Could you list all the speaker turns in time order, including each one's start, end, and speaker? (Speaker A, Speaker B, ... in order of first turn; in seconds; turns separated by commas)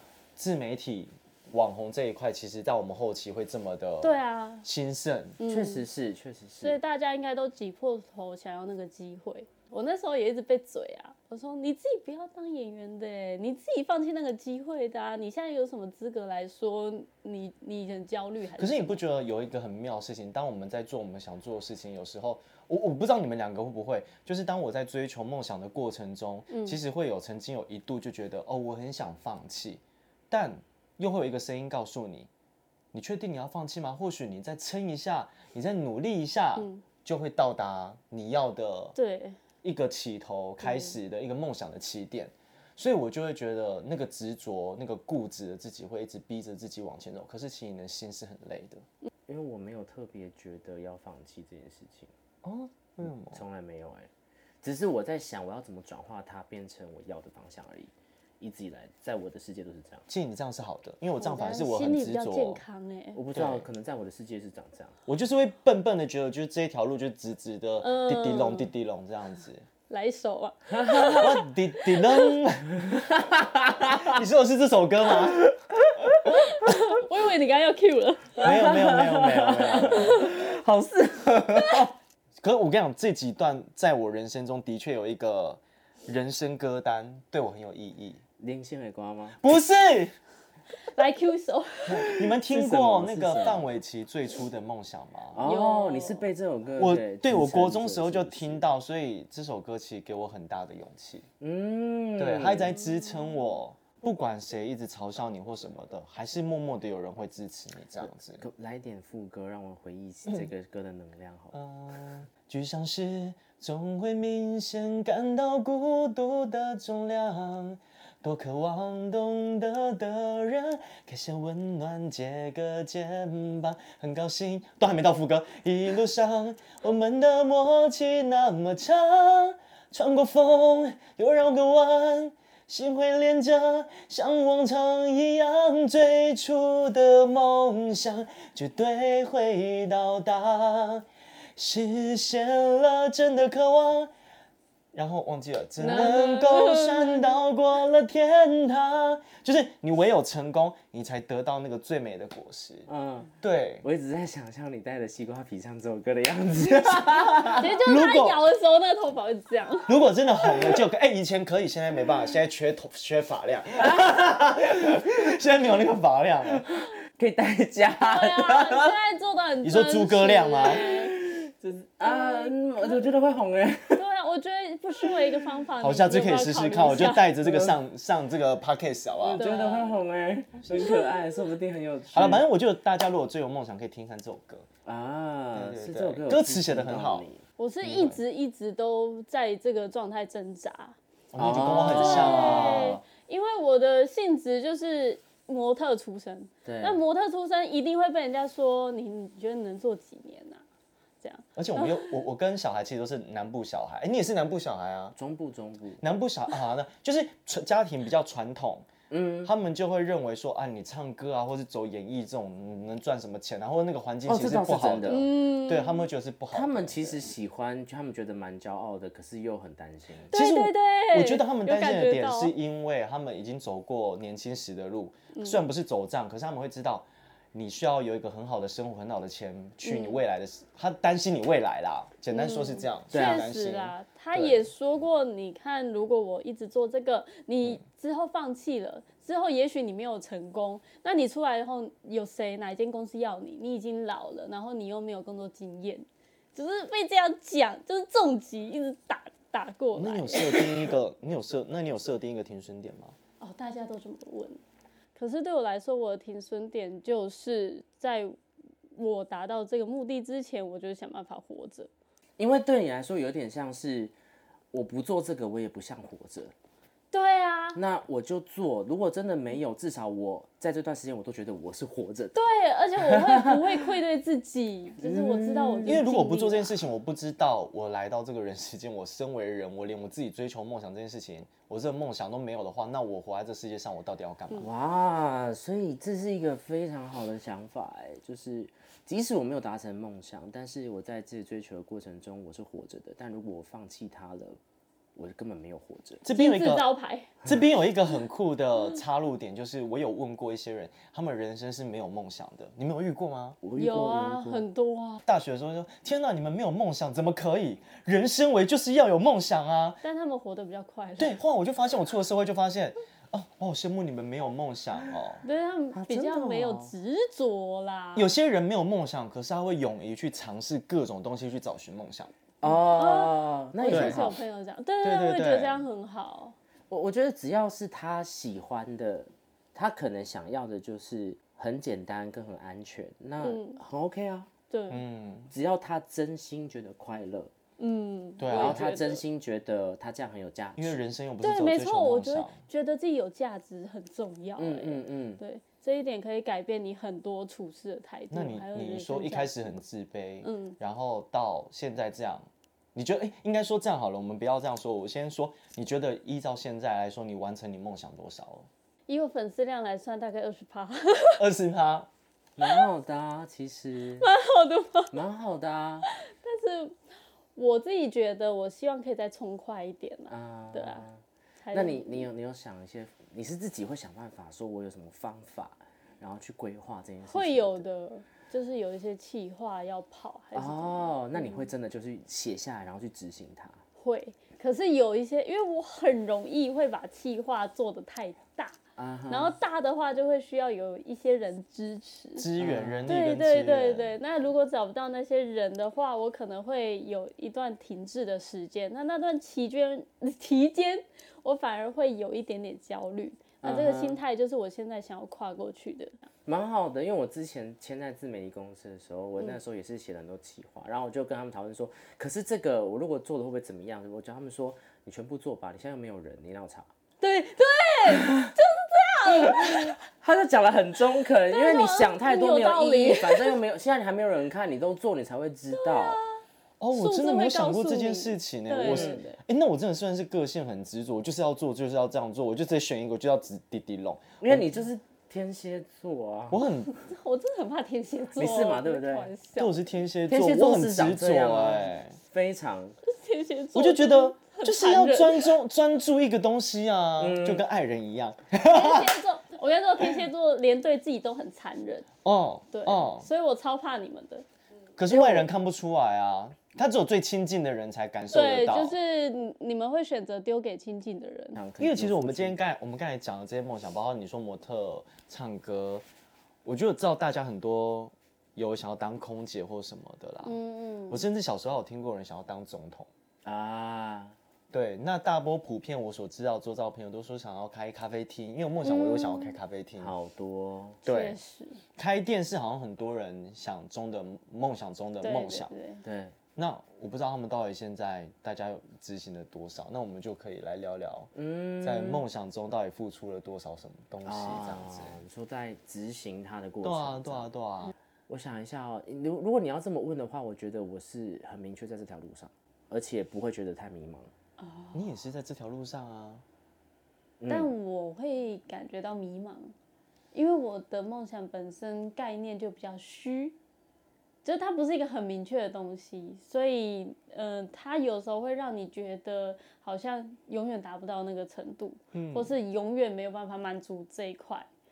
Speaker A: 0.4-5.4, Speaker B: 4.0-4.7, Speaker B: 5.4-5.9, Speaker C: 5.4-6.8, Speaker B: 6.6-19.0, Speaker A: 18.6-32.3, Speaker B: 26.5-26.8, Speaker A: 32.9-39.0, Speaker B: 36.5-36.8, Speaker B: 39.0-39.4, Speaker A: 39.6-48.9, Speaker B: 40.6-41.0, Speaker C: 49.3-52.1, Speaker A: 52.4-53.4, Speaker C: 53.3-54.1, Speaker C: 54.6-60.0, Speaker A: 60.1-62.6, Speaker B: 61.2-63.2, Speaker C: 63.1-65.0, Speaker A: 63.3-63.7, Speaker A: 65.0-69.6, Speaker B: 67.8-68.7, Speaker B: 69.9-72.3, Speaker C: 70.7-71.4, Speaker A: 71.1-73.1, Speaker C: 72.8-74.2, Speaker A: 73.8-75.4, Speaker C: 75.2-76.4, Speaker B: 76.3-78.5, Speaker C: 78.4-81.9, Speaker A: 78.4-80.3, Speaker B: 80.0-80.3, Speaker A: 82.4-88.2, Speaker C: 88.4-89.4, Speaker A: 89.4-90.2, Speaker B: 90.9-92.2, Speaker A: 91.9-95.4, Speaker C: 91.9-93.6, Speaker C: 95.3-98.7, Speaker B: 95.4-96.3, Speaker A: 96.8-101.3, Speaker C: 101.4-102.7, Speaker A: 102.2-108.4, Speaker C: 108.0-111.5, Speaker A: 111.5-144.1, Speaker A: 144.9-152.9, Speaker B: 145.8-147.3, Speaker C: 152.9-157.7, Speaker A: 153.4-153.8, Speaker A: 157.1-158.4, Speaker B: 157.5-159.9, Speaker A: 159.9-166.7, Speaker C: 163.8-164.1, Speaker C: 166.7-168.9, Speaker B: 167.9-171.2, Speaker A: 169.6-170.9, Speaker C: 170.8-174.0, Speaker B: 172.0-173.0, Speaker B: 173.9-177.4, Speaker C: 175.0-175.3, Speaker A: 175.8-179.4, Speaker C: 177.4-177.7, Speaker C: 179.2-182.4, Speaker B: 179.4-180.0, Speaker B: 180.7-181.3, Speaker A: 182.1-184.7, Speaker C: 184.9-187.4, Speaker A: 185.5-187.3, Speaker B: 187.6-190.9, Speaker A: 187.8-188.2, Speaker A: 191.3-193.0, Speaker C: 191.4-192.9, Speaker B: 191.8-200.6, Speaker C: 196.6-197.0, Speaker B: 201.2-202.2, Speaker A: 201.5-205.2, Speaker C: 205.2-206.0, Speaker A: 206.0-208.9, Speaker C: 209.1-209.5, Speaker A: 209.4-217.2, Speaker C: 214.2-215.3, Speaker B: 215.1-216.1, Speaker C: 216.5-220.3, Speaker B: 220.3-222.5, Speaker A: 220.3-234.7, Speaker B: 225.3-225.6, Speaker B: 229.8-230.2, Speaker B: 232.3-250.8, Speaker C: 233.1-233.5, Speaker A: 249.9-253.2, Speaker B: 253.4-254.6, Speaker B: 255.2-258.4, Speaker B: 258.9-261.9, Speaker C: 262.4-264.1, Speaker C: 264.7-266.5, Speaker B: 267.1-267.8, Speaker C: 267.7-272.4, Speaker B: 272.4-276.8, Speaker C: 273.0-273.9, Speaker C: 275.0-276.0, Speaker A: 275.9-284.7, Speaker C: 284.6-294.6, Speaker C: 295.1-296.2, Speaker A: 296.2-296.9, Speaker B: 296.3-297.3, Speaker A: 297.4-303.6, Speaker C: 303.6-304.6, Speaker B: 303.8-305.2, Speaker A: 305.2-310.0, Speaker B: 310.0-311.4, Speaker A: 311.2-315.4, Speaker B: 315.4-318.3, Speaker C: 315.9-316.9, Speaker A: 318.1-322.3, Speaker C: 322.6-324.4, Speaker B: 322.6-326.6, Speaker A: 323.9-324.3, Speaker A: 325.0-325.9, Speaker C: 326.9-334.5, Speaker B: 333.4-333.8, Speaker B: 334.7-335.0, Speaker A: 334.9-335.5, Speaker C: 335.5-337.5, Speaker B: 337.8-339.2, Speaker A: 338.4-338.9, Speaker C: 338.5-341.0, Speaker A: 340.8-342.6, Speaker B: 341.4-349.8, Speaker C: 344.6-345.4, Speaker A: 348.3-358.7, Speaker B: 350.4-350.8, Speaker B: 359.1-361.4, Speaker A: 361.4-362.1, Speaker C: 362.6-364.3, Speaker B: 364.2-365.2, Speaker C: 365.1-366.1, Speaker B: 366.1-366.9, Speaker B: 367.6-371.1, Speaker C: 370.3-377.8, Speaker B: 371.6-372.3, Speaker B: 377.3-381.7, Speaker C: 380.5-383.8, Speaker B: 384.0-388.8, Speaker C: 389.0-389.5, Speaker B: 389.3-392.5, Speaker A: 392.4-394.1, Speaker C: 392.6-393.1, Speaker B: 393.1-406.3, Speaker C: 403.6-404.2, Speaker C: 406.4-416.9, Speaker B: 417.2-420.0, Speaker C: 418.1-418.5, Speaker C: 419.2-426.2, Speaker B: 421.4-423.6, Speaker B: 425.8-426.4, Speaker A: 426.8-434.7, Speaker B: 426.9-429.4, Speaker C: 428.8-429.2, Speaker C: 434.4-436.6, Speaker A: 436.5-436.9, Speaker B: 436.9-439.9, Speaker C: 438.4-439.3, Speaker A: 439.6-442.2, Speaker C: 440.3-443.0, Speaker B: 443.0-445.5, Speaker A: 443.8-449.1, Speaker C: 447.2-447.6, Speaker B: 448.6-452.1, Speaker A: 452.2-453.2, Speaker B: 452.7-454.4, Speaker A: 455.0-458.9, Speaker B: 455.1-455.4, Speaker B: 458.3-461.6, Speaker C: 461.6-462.6, Speaker A: 461.8-466.1, Speaker A: 466.6-470.6, Speaker B: 470.4-471.2, Speaker A: 471.1-473.1, Speaker C: 473.4-474.4, Speaker A: 474.7-480.1, Speaker B: 478.8-479.6, Speaker C: 480.0-481.0, Speaker A: 481.1-481.4, Speaker B: 481.1-481.8, Speaker A: 482.0-485.7, Speaker B: 485.2-486.0, Speaker C: 486.0-486.4, Speaker A: 486.6-495.2, Speaker C: 491.3-492.2, Speaker C: 494.2-497.5, Speaker A: 496.8-497.9, Speaker C: 498.3-504.3, Speaker B: 504.6-505.1, Speaker A: 504.9-506.4, Speaker C: 507.4-507.7, Speaker B: 507.5-509.7, Speaker B: 510.3-513.6, Speaker B: 514.4-524.7, Speaker A: 522.1-522.5